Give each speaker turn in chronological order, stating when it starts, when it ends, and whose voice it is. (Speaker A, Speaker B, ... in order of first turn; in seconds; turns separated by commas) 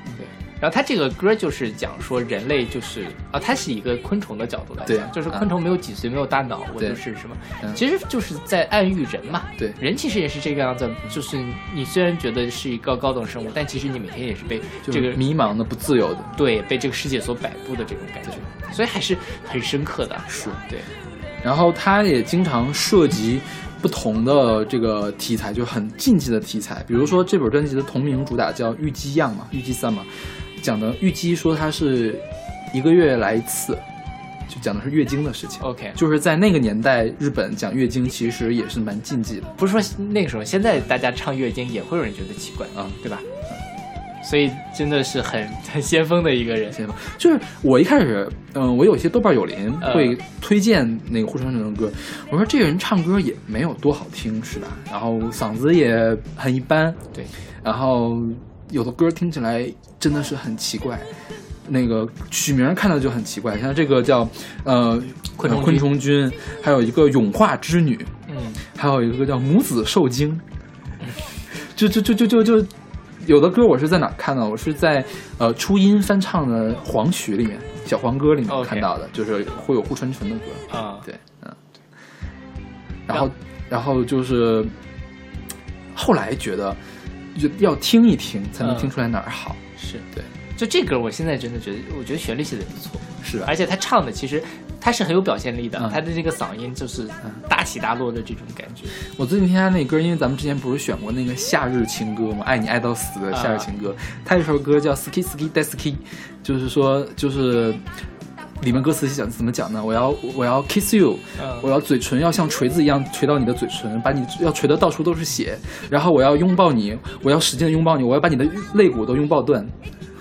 Speaker A: 0.1-15.2, Speaker B: 4.8-5.5, Speaker B: 14.9-16.3, Speaker A: 16.4-20.9, Speaker B: 20.3-20.6, Speaker B: 21.4-30.1, Speaker B: 30.6-33.8, Speaker B: 34.5-39.5, Speaker A: 35.6-36.0, Speaker A: 39.6-43.3, Speaker A: 44.2-46.8, Speaker B: 46.7-57.0, Speaker A: 49.8-50.2, Speaker B: 57.6-61.1, Speaker B: 61.7-68.1, Speaker A: 65.4-65.9, Speaker A: 68.3-68.6, Speaker B: 68.7-70.4, Speaker B: 71.5-81.6, Speaker A: 78.5-78.9, Speaker A: 80.7-81.1, Speaker B: 83.1-84.7, Speaker B: 85.9-86.8, Speaker B: 87.3-89.6, Speaker A: 88.6-88.9, Speaker A: 89.8-90.0, Speaker A: 90.6-99.0, Speaker B: 93.2-93.5, Speaker B: 99.0-107.8, Speaker A: 103.3-103.7, Speaker B: 108.6-119.8, Speaker A: 111.4-111.7